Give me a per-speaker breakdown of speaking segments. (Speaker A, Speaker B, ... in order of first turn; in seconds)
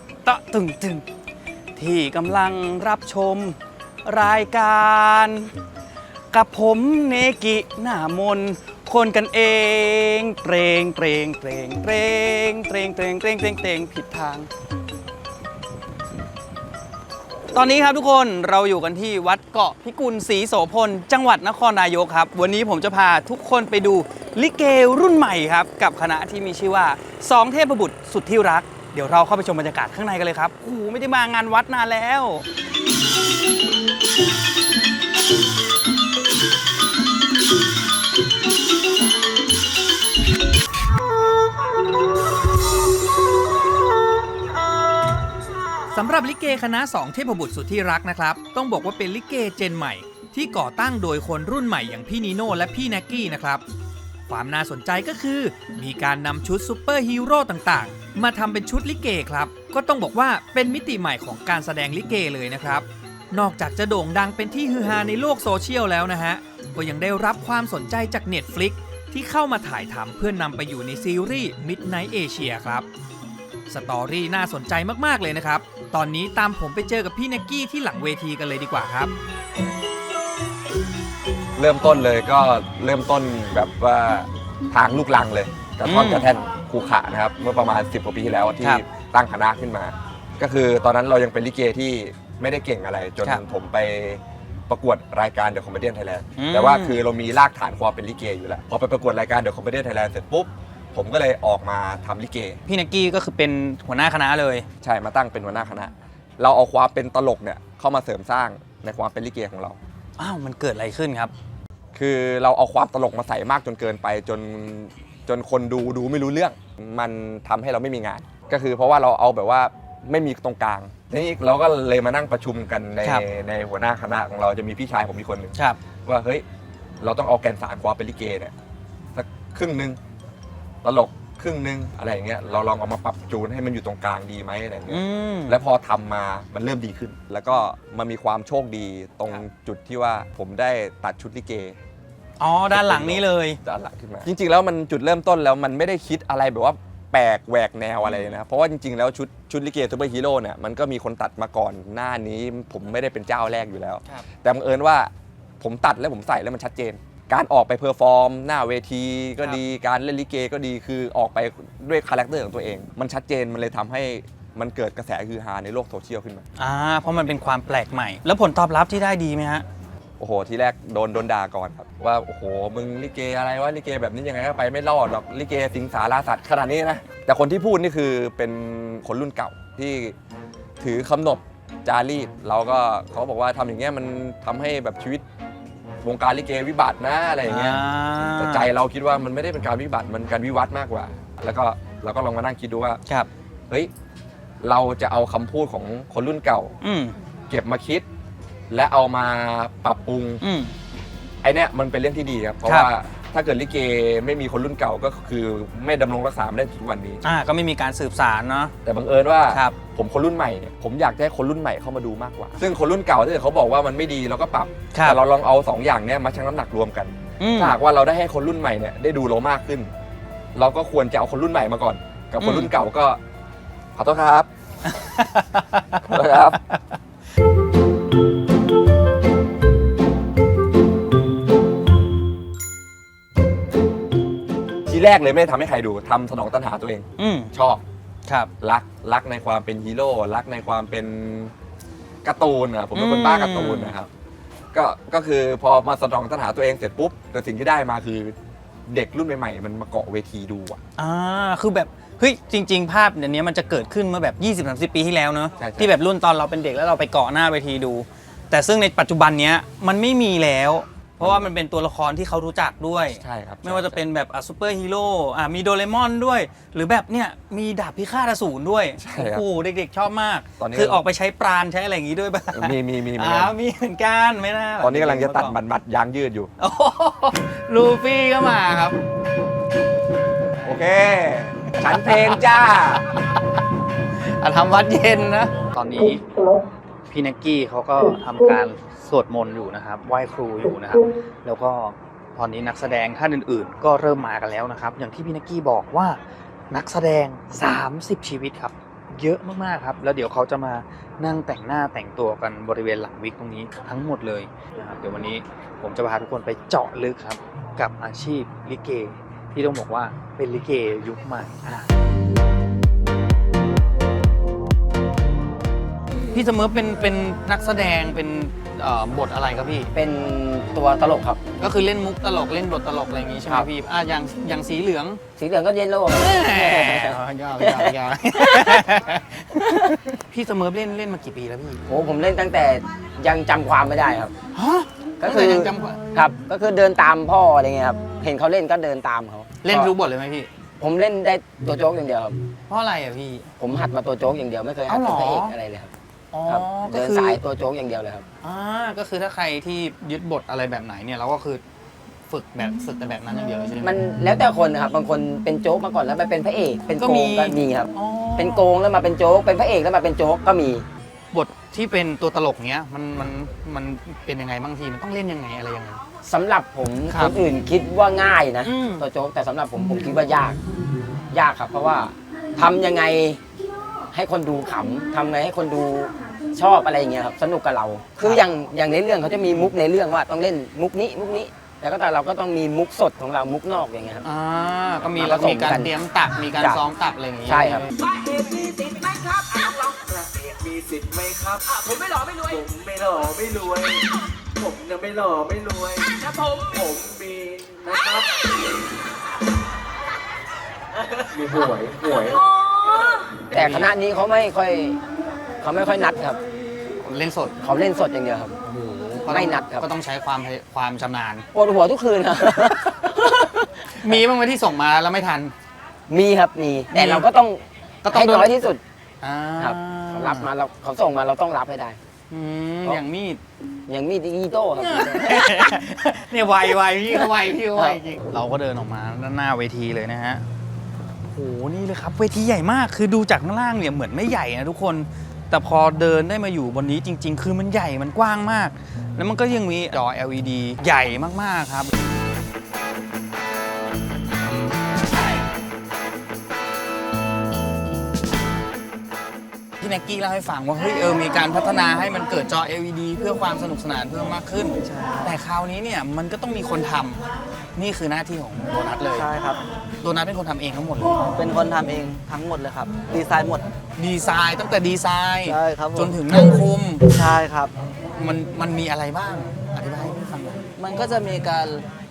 Speaker A: 0.2-1.0, 1.8-5.5, 6.3-14.5, 17.5-32.4, 46.0-53.6, 54.3-60.5, 61.1-62.8, 63.5-72.6, 73.7-79.1, 85.8-86.3, 96.4-97.0, 102.7-104.7, 110.2-111.3, 134.9-135.6, 142.4-143.6, 166.6-169.6, 187.4-188.7, 196.8-197.1, 200.4-200.7, 202.6-202.9, 207.2-208.7, 209.5-209.8, 214.9-215.2, 217.4-217.8, 222.4-222.7, 224.8-226.8, 237.2-237.5, 242.9-244.0, 251.0-275.6, 276.6-279.0, 281.8-282.4, 284.2-286.4, 287.1-296.2, 296.7-311.9, 316.3-319.9, 321.6-325.2, 326.1-331.8, 334.6-336.0, 339.6-340.5, 342.7-343.5, 344.9-345.6, 346.3-347.4, 348.4-351.6, 352.3-353.9, 356.9-358.7, 361.3-366.0, 367.1-367.3, 368.6-369.0, 384.2-387.9, 403.5-403.9, 407.0-407.5, 408.6-411.4, 414.0-415.5, 416.9-417.2, 418.0-418.6, 419.2-420.5, 422.3-423.4, 424.8-430.4, 431.3-441.9, 449.8-457.2, 457.8-459.2, 460.0-461.2, 464.0-467.0, 468.1-470.6
Speaker B: 46.0-47.7, 48.4-48.7, 50.3-53.6, 54.3-72.8, 73.7-79.1
Speaker C: 81.6-102.6, 104.8-109.8, 111.9-126.4, 127.0-128.5, 129.1-130.0, 130.8-141.8, 142.7-166.4, 170.2-180.1, 180.8-185.2, 186.0-187.8, 188.3-193.0, 194.6-196.7, 197.5-198.0, 198.7-200.4, 201.4-207.2, 208.8-219.9, 220.5-223.2, 223.9-224.5, 226.1-226.6, 234.9-237.8, 238.6-241.5, 242.2-244.1, 244.7-248.3, 248.9-250.8, 255.6-255.9, 263.2-264.0, 269.0-269.4, 270.6-271.0, 272.5-273.5, 274.8-276.5, 280.6-283.0, 401.4-402.2
Speaker D: 319.9-321.4, 325.4-328.9, 331.9-334.3, 335.2-339.9, 340.8-342.3, 343.6-345.9, 346.4-348.2, 353.8-360.8, 366.2-370.6, 371.3-373.4, 374.1-384.2, 385.1-386.0, 386.5-386.8, 387.4-387.9, 403.5-405.0, 405.6-406.4, 407.6-408.6, 409.2-409.9, 411.5-412.9, 416.1-418.8, 419.6-422.0, 423.9-425.7, 427.7-428.0
Speaker E: 387.9-394.0, 394.6-398.3, 401.1-403.2
Speaker F: 454.9-455.3, 459.1-459.6, 461.3-463.7, 465.4-467.7, 470.8-471.8